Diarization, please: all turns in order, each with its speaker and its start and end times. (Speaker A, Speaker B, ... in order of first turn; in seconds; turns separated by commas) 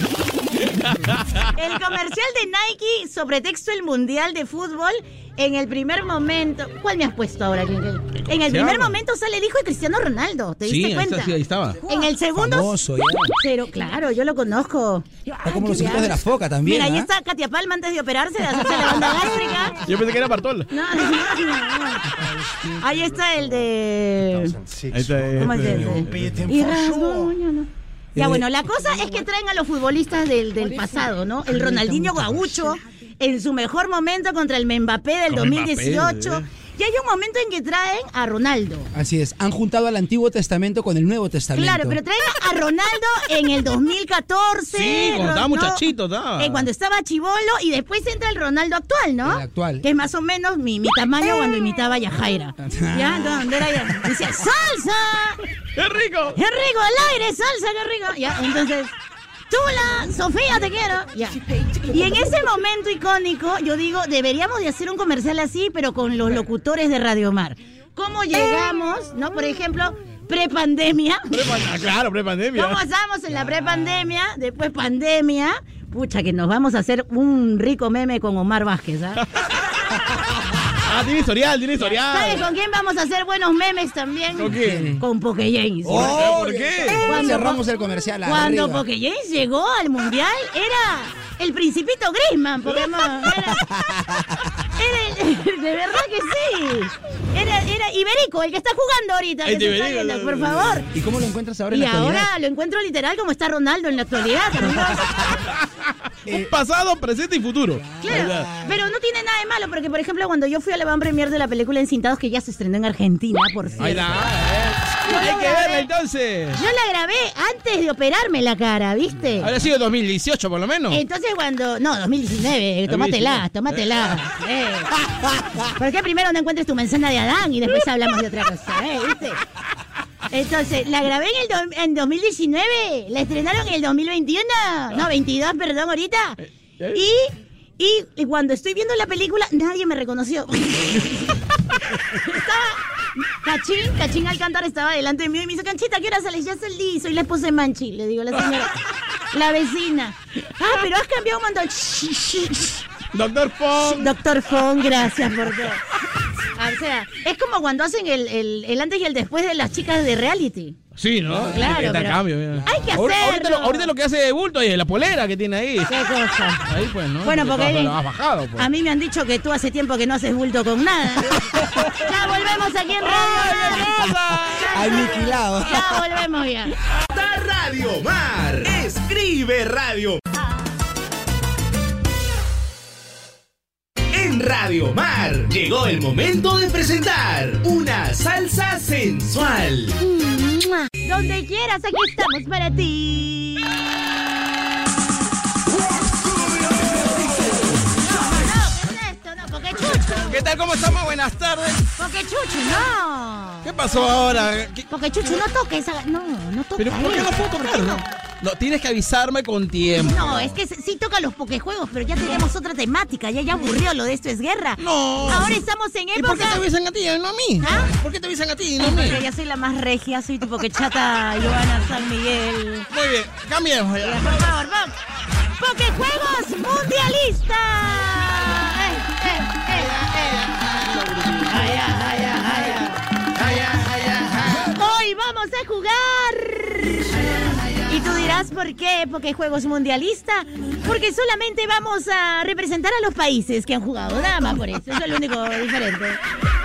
Speaker A: 0.8-1.2, Speaker B: 1.5-12.8, Speaker A: 8.2-9.0, Speaker A: 10.6-11.8, Speaker C: 12.3-13.4, Speaker B: 13.4-19.8, Speaker C: 15.4-17.1, Speaker A: 19.8-20.7, Speaker B: 20.7-22.1, Speaker C: 22.4-22.7, Speaker B: 22.8-24.6, Speaker C: 24.6-25.1, Speaker A: 24.9-26.5, Speaker B: 25.4-38.9, Speaker C: 26.0-27.2, Speaker C: 28.1-28.5, Speaker C: 31.5-32.6, Speaker A: 35.3-36.4, Speaker C: 38.9-42.0, Speaker B: 41.5-45.8, Speaker A: 44.7-46.7, Speaker B: 46.4-55.4, Speaker C: 49.2-49.9, Speaker C: 52.6-53.9, Speaker A: 55.8-56.4, Speaker B: 56.3-59.0, Speaker B: 59.5-71.5, Speaker A: 71.3-72.8, Speaker B: 72.5-79.2, Speaker A: 79.2-79.5, Speaker A: 80.8-82.5, Speaker B: 81.8-86.3, Speaker A: 84.3-85.0, Speaker C: 84.5-85.0, Speaker C: 85.8-88.9, Speaker A: 85.8-87.0, Speaker B: 87.0-87.6, Speaker B: 88.2-100.9, Speaker C: 93.5-94.4, Speaker A: 99.4-100.8, Speaker C: 100.9-102.3, Speaker B: 101.7-105.4, Speaker A: 105.5-108.5, Speaker C: 106.3-106.5, Speaker B: 108.0-114.1, Speaker C: 108.1-108.8, Speaker A: 113.8-116.6, Speaker B: 115.1-115.9, Speaker B: 116.5-119.5, Speaker A: 119.4-121.0, Speaker B: 120.9-124.9, Speaker A: 122.9-124.2, Speaker A: 125.0-125.7, Speaker B: 125.8-129.4, Speaker B: 130.3-148.7, Speaker B: 149.3-152.8, Speaker A: 153.1-154.1, Speaker B: 153.8-155.8, Speaker B: 156.5-160.8, Speaker A: 161.0-165.9, Speaker B: 161.3-163.9, Speaker C: 162.6-162.9, Speaker B: 165.9-166.6, Speaker A: 166.7-168.7, Speaker B: 167.2-168.0, Speaker B: 168.6-176.7, Speaker A: 173.0-175.0, Speaker C: 174.6-176.1, Speaker D: 177.1-180.2, Speaker D: 184.1-190.0, Speaker B: 190.0-194.3, Speaker B: 197.9-200.6, Speaker A: 200.2-201.9, Speaker B: 202.0-203.7, Speaker A: 203.6-204.9, Speaker B: 204.9-208.0, Speaker A: 206.8-210.6, Speaker B: 210.1-216.6, Speaker A: 214.8-215.6, Speaker A: 216.2-219.2, Speaker B: 217.6-217.9, Speaker B: 218.8-222.9, Speaker A: 222.9-224.3, Speaker B: 224.0-225.0, Speaker B: 225.6-230.3, Speaker A: 229.8-231.6, Speaker B: 231.5-233.1, Speaker A: 233.4-234.6, Speaker B: 234.5-237.1, Speaker B: 237.7-246.2